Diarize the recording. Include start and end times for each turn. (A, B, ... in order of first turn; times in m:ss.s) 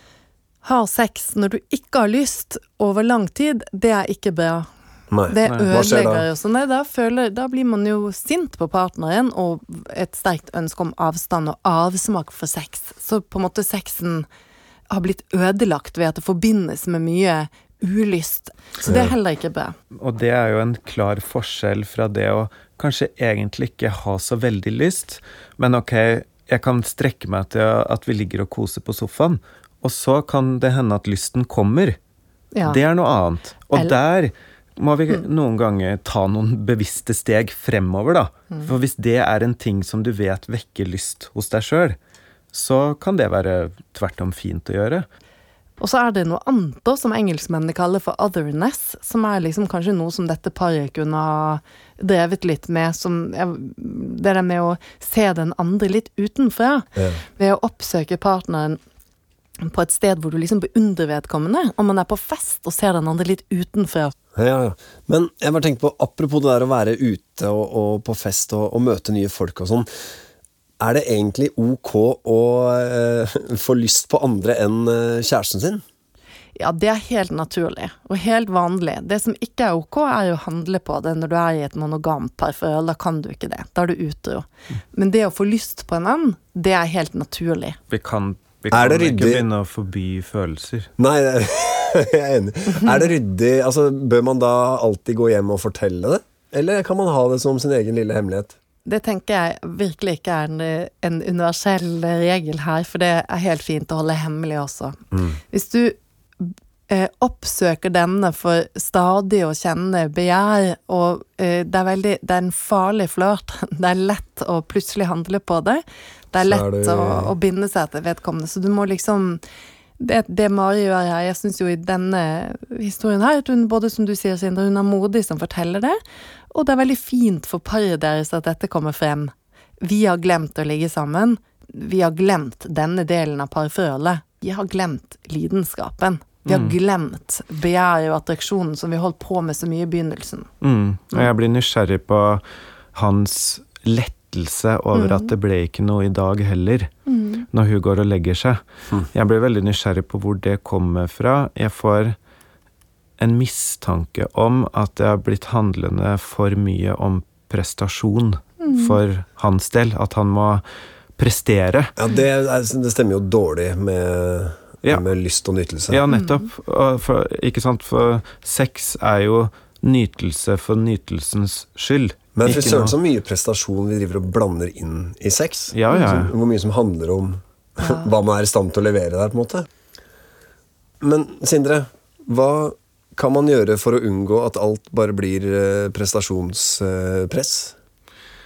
0:00.6-0:04.7 A
0:05.1-0:06.2 B
0:05.3-0:14.2 A
0:14.9-0:19.7 A
0:18.8-0:19.1 B
0:20.0-0:32.0 C
0:32.5-0:32.8 A
0:32.6-0:42.0 C
0:42.5-0:45.1 C
0:45.8-0:58.8 A
0:57.0-0:57.2 B
0:59.6-1:04.1 A
1:04.3-1:09.9 B
1:10.8-1:15.8 B
1:16.6-1:27.8 A
1:27.9-1:30.9 C
1:28.7-1:29.4 B
1:31.0-1:38.6 B
1:38.8-1:45.0 A
1:45.5-1:59.4 A
1:56.4-1:57.3 B
2:00.0-2:06.0 A
2:06.5-2:20.5 A
2:16.4-2:16.8 C
2:20.6-2:22.4 C
2:22.9-2:26.9 C
2:24.9-2:25.3 A
2:27.1-2:27.4 A
2:27.5-2:28.6 C
2:29.1-2:32.2 C
2:33.2-2:40.6 C
2:38.6-2:39.0 A
2:41.2-2:41.9 C
2:42.0-2:46.0 B
2:45.9-2:52.9 C
2:46.1-2:46.5 A
2:52.4-2:59.7 B
2:55.7-2:56.3 C
2:55.9-2:56.2 A
2:57.8-2:58.1 A
3:01.0-3:07.8 B